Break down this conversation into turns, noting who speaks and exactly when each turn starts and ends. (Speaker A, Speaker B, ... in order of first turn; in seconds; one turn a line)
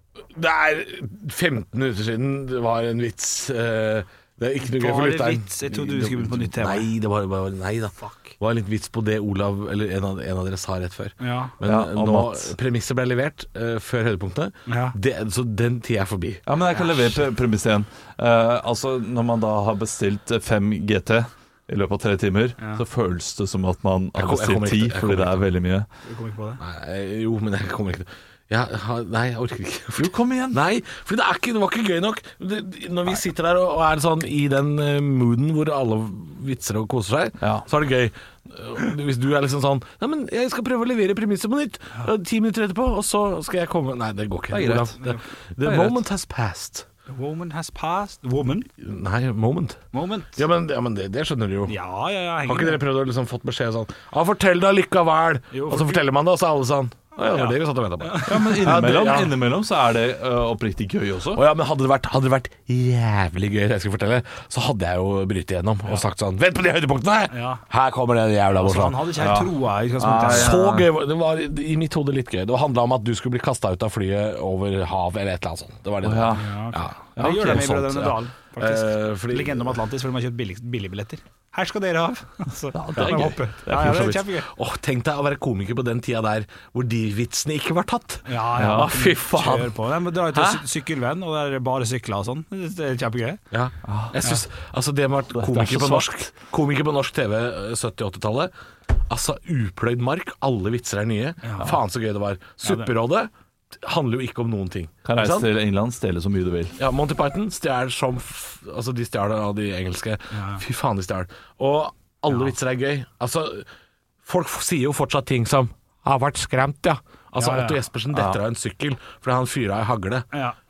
Speaker A: 0.3-16.4
Speaker B: 4.6-6.9
Speaker B: 11.2-11.6
Speaker C: 11.7-12.6
Speaker B: 14.7-15.0
Speaker C: 16.5-25.9
Speaker A: 24.2-25.5
Speaker B: 26.1-26.6
Speaker A: 26.6-46.9
Speaker C: 30.0-30.6
Speaker C: 37.4-37.6
Speaker C: 44.5-45.0
Speaker C: 45.6-46.0
Speaker B: 47.1-48.7
Speaker A: 48.8-51.8
Speaker B: 49.9-50.4
Speaker B: 51.7-52.8
Speaker A: 52.5-59.4
Speaker B: 55.5-56.0
Speaker B: 57.2-58.6
Speaker C: 58.3-61.4
Speaker A: 61.4-69.0
Speaker B: 67.3-67.6
Speaker B: 68.6-70.6
Speaker C: 69.2-70.9
Speaker A: 70.2-79.7
Speaker C: 76.0-76.5
Speaker B: 76.4-84.5
Speaker C: 77.2-77.9
Speaker C: 82.7-84.2
Speaker A: 83.0-89.7
Speaker B: 88.2-93.4
Speaker C: 88.6-89.7
Speaker A: 93.5-98.5
Speaker C: 93.8-94.2
Speaker C: 95.3-96.2
Speaker A: 99.1-105.5
Speaker B: 101.4-101.8
Speaker B: 102.6-102.9
Speaker C: 105.0-106.8
Speaker A: 106.8-113.7
Speaker B: 110.3-110.6
Speaker A: 114.2-120.3
Speaker B: 117.4-117.8
Speaker C: 118.1-118.4